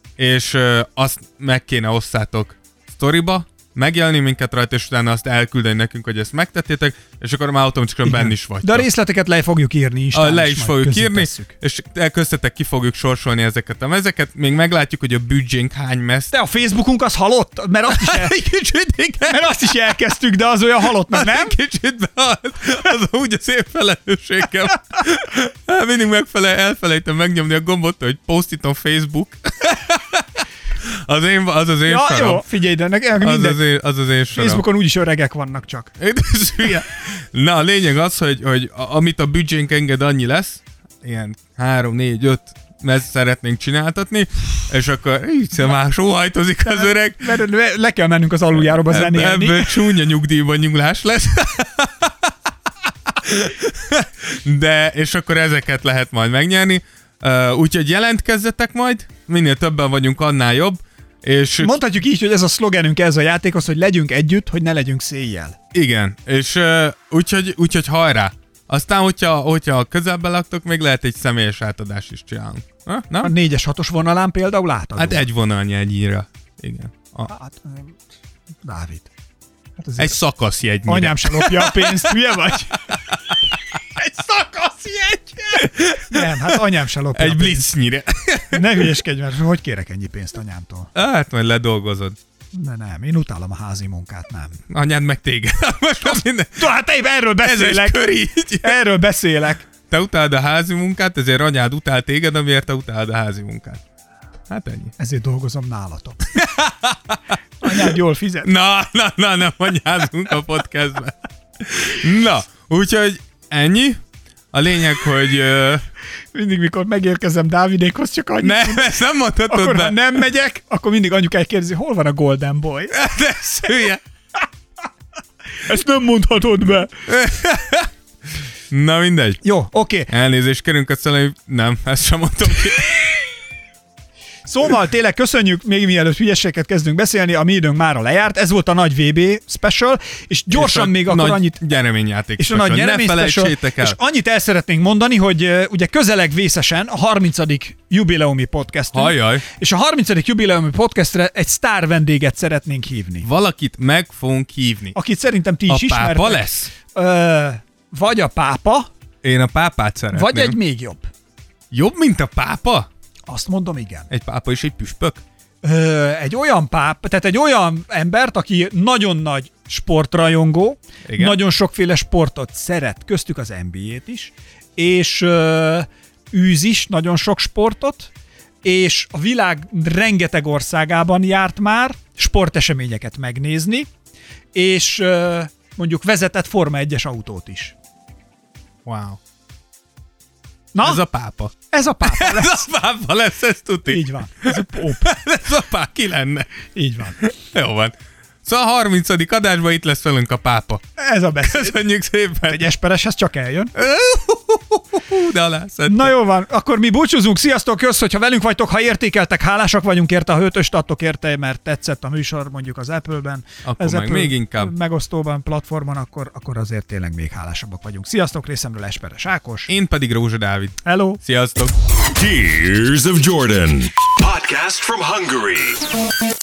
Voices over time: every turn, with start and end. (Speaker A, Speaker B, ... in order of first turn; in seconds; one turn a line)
Speaker A: 0.2-8.9
Speaker B: 8.1-11.5
Speaker A: 10.1-16.3
Speaker B: 16.3-18.4
Speaker A: 17.9-19.7
Speaker B: 19.2-21.6
Speaker A: 21.0-32.4
Speaker B: 31.9-33.6
Speaker A: 33.2-34.6
Speaker B: 34.3-35.9
Speaker A: 36.0-47.3
Speaker B: 46.7-49.8
Speaker A: 48.6-52.3
Speaker A: 53.1-61.8
Speaker B: 61.6-65.5
Speaker A: 65.7-73.3
Speaker B: 73.2-75.2
Speaker A: 75.0-77.3
Speaker B: 77.3-78.0
Speaker B: 78.6-79.1
Speaker B: 79.8-80.2
Speaker A: 80.0-82.2
Speaker B: 80.8-83.0
Speaker B: 84.0-87.7
Speaker A: 85.5-86.6
Speaker A: 87.1-88.9
Speaker B: 88.5-90.9
Speaker A: 90.9-92.2
Speaker B: 92.5-94.6
Speaker A: 94.7-96.7
Speaker B: 96.6-98.0
Speaker A: 97.4-98.8
Speaker B: 98.6-99.7
Speaker A: 99.8-103.8
Speaker A: 104.5-104.9
Speaker B: 105.0-106.3
Speaker A: 106.3-114.0
Speaker B: 107.6-108.5
Speaker A: 114.5-115.8
Speaker B: 116.3-118.9
Speaker A: 118.4-120.0
Speaker B: 119.5-123.1
Speaker A: 122.9-124.0
Speaker B: 125.5-127.0
Speaker A: 127.1-127.9
Speaker A: 128.7-129.4
Speaker B: 129.4-130.1
Speaker A: 130.1-133.2
Speaker B: 134.4-141.6
Speaker A: 140.5-144.0
Speaker B: 142.4-153.3
Speaker A: 148.9-149.4
Speaker A: 153.2-154.9
Speaker B: 154.9-158.9
Speaker A: 155.7-156.7
Speaker A: 159.2-160.6
Speaker B: 160.1-161.1
Speaker A: 161.7-162.9
Speaker B: 163.3-164.1
Speaker A: 164.1-165.2
Speaker B: 165.6-178.1
Speaker A: 171.1-171.4
Speaker B: 178.6-183.9
Speaker B: 184.5-187.7
Speaker A: 188.8-189.2
Speaker B: 190.7-191.0
Speaker A: 190.8-196.5
Speaker B: 191.7-192.7
Speaker B: 193.9-195.1
Speaker B: 196.8-197.2
Speaker A: 197.2-200.8
Speaker B: 201.0-201.8
Speaker A: 201.4-202.6
Speaker B: 202.4-203.7
Speaker A: 203.8-206.1
Speaker B: 205.9-219.7
Speaker A: 213.6-214.7
Speaker A: 219.7-221.8
Speaker B: 220.8-221.2
Speaker C: 222.1-225.8